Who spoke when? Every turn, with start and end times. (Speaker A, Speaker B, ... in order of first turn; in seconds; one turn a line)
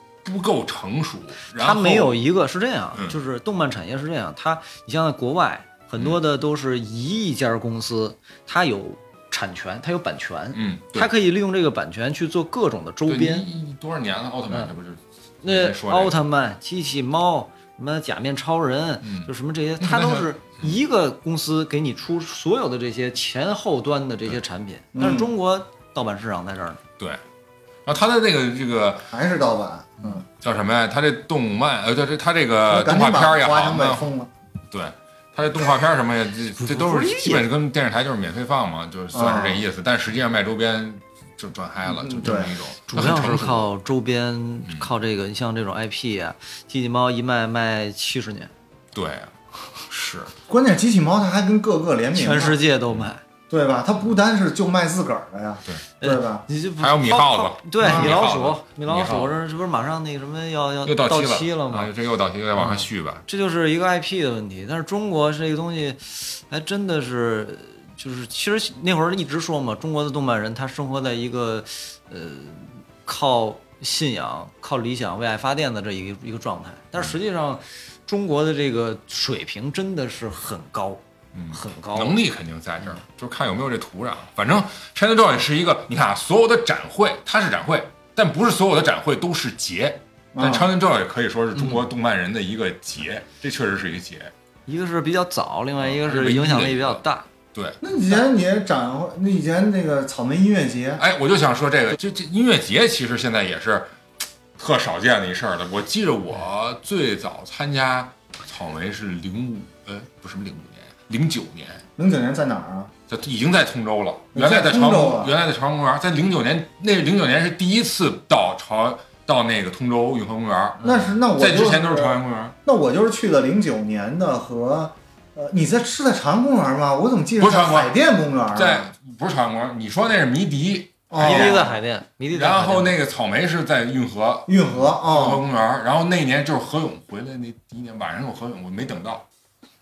Speaker A: 0.2-2.2
Speaker B: 1.5-13.5
Speaker A: 10.5-11.1
Speaker A: 13.1-16.1
Speaker B: 15.4-26.8
Speaker A: 19.0-20.7
Speaker C: 24.9-25.3
Speaker A: 27.9-29.1
Speaker C: 29.1-30.2
Speaker A: 30.4-34.0
Speaker C: 32.7-34.3
Speaker A: 34.7-43.7
Speaker B: 36.6-37.4
Speaker C: 39.1-39.6
Speaker C: 42.0-42.5
Speaker B: 42.9-48.5
Speaker A: 48.9-49.3
Speaker A: 49.9-50.3
Speaker C: 50.5-52.6
Speaker B: 52.1-53.2
Speaker C: 53.5-56.4
Speaker B: 56.0-61.9
Speaker A: 56.8-59.3
Speaker C: 57.8-58.2
Speaker A: 60.8-63.2
Speaker B: 62.6-81.0
Speaker A: 81.3-94.3
Speaker B: 81.5-82.2
Speaker C: 90.3-90.7
Speaker B: 94.7-97.3
Speaker A: 95.8-97.0
Speaker A: 97.5-97.8
Speaker C: 97.8-101.0
Speaker A: 101.0-103.9
Speaker A: 104.6-111.8
Speaker C: 112.0-112.9
Speaker A: 113.1-122.5
Speaker C: 114.3-115.3
Speaker C: 120.8-128.8
Speaker A: 127.4-127.9
Speaker A: 128.5-131.7
Speaker C: 131.1-131.7
Speaker B: 131.2-132.9
Speaker A: 132.3-139.2
Speaker C: 134.5-135.4